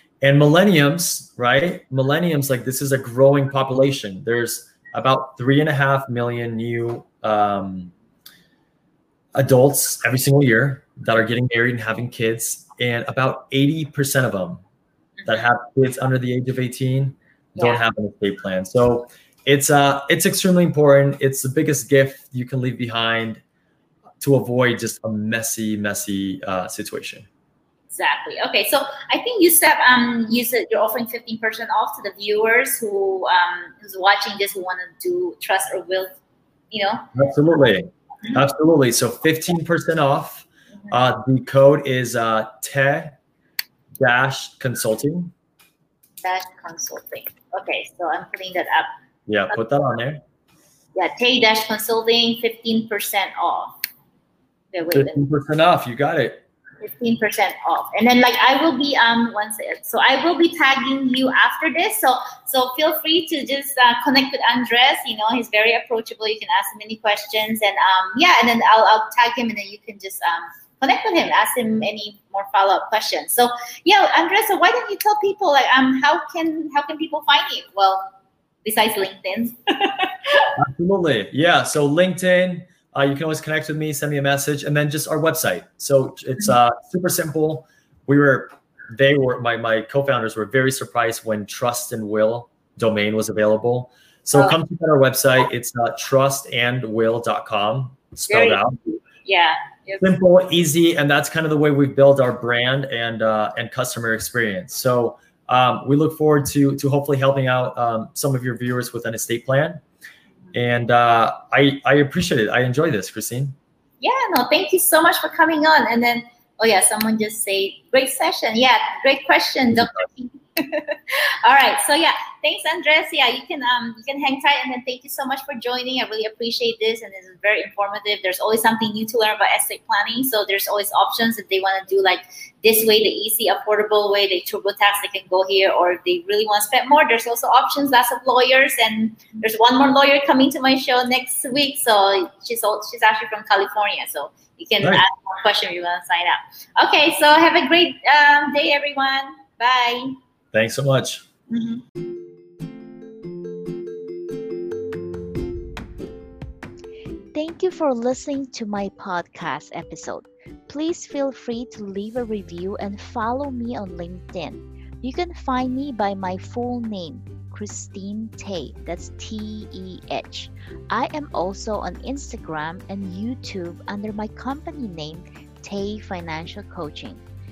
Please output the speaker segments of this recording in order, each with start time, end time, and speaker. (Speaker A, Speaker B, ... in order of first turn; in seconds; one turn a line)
Speaker A: 0.2-7.9
Speaker A: 9.3-14.6
Speaker B: 15.2-15.5
Speaker A: 15.3-23.4
Speaker B: 17.6-17.8
Speaker A: 24.2-27.3
Speaker B: 27.9-36.2
Speaker B: 36.7-37.1
Speaker A: 37.1-43.2
Speaker A: 44.0-45.3
Speaker B: 46.2-48.9
Speaker A: 49.3-50.2
Speaker B: 51.0-53.8
Speaker B: 54.7-55.2
Speaker A: 54.9-56.4
Speaker B: 56.8-78.1
Speaker B: 78.7-80.5
Speaker A: 80.6-99.0
Speaker B: 98.3-98.6
Speaker B: 99.2-100.1
Speaker A: 100.0-109.8
Speaker A: 110.5-113.6
Speaker B: 114.0-150.2
Speaker A: 150.5-151.2
Speaker B: 151.5-151.8
Speaker C: 157.3-177.2